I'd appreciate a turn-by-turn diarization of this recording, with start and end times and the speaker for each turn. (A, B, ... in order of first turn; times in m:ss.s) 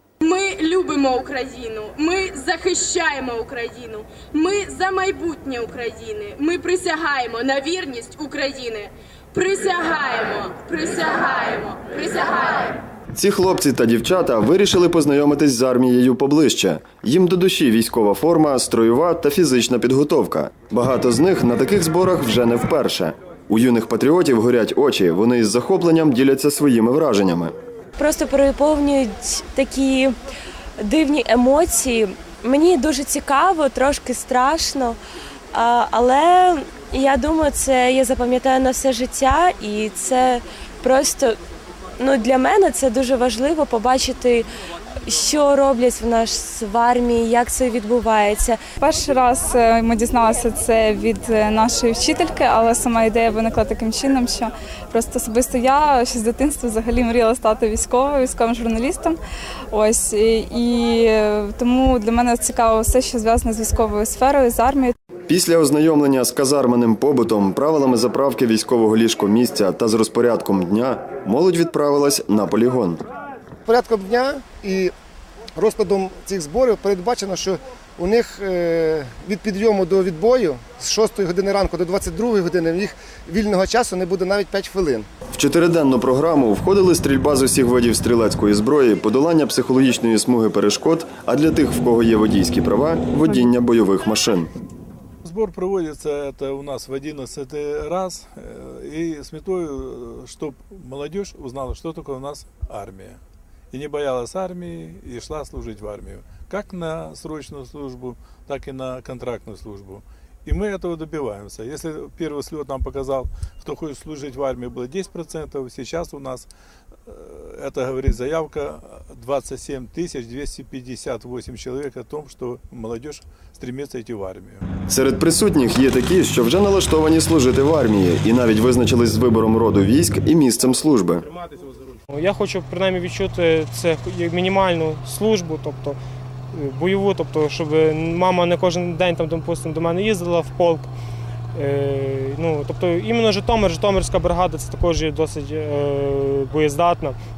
0:00.2-0:12.9 A
0:13.1-0:27.6 B
0:28.0-0:30.2 C
0:30.8-0:35.0 C
0:35.5-0:41.4 C
0:42.0-0:44.5 C
0:45.1-0:48.6 C
0:48.8-0:59.2 D
0:59.7-1:05.0 D
1:05.3-1:13.0 B
1:13.6-1:14.9 E
1:15.6-1:25.1 E
1:25.3-1:34.5 B
1:35.2-1:43.2 F
1:43.7-1:56.5 F
1:57.1-2:04.6 F
2:04.9-2:11.3 B
2:12.1-2:16.0 G
2:16.5-2:20.9 G
2:21.6-2:27.2 G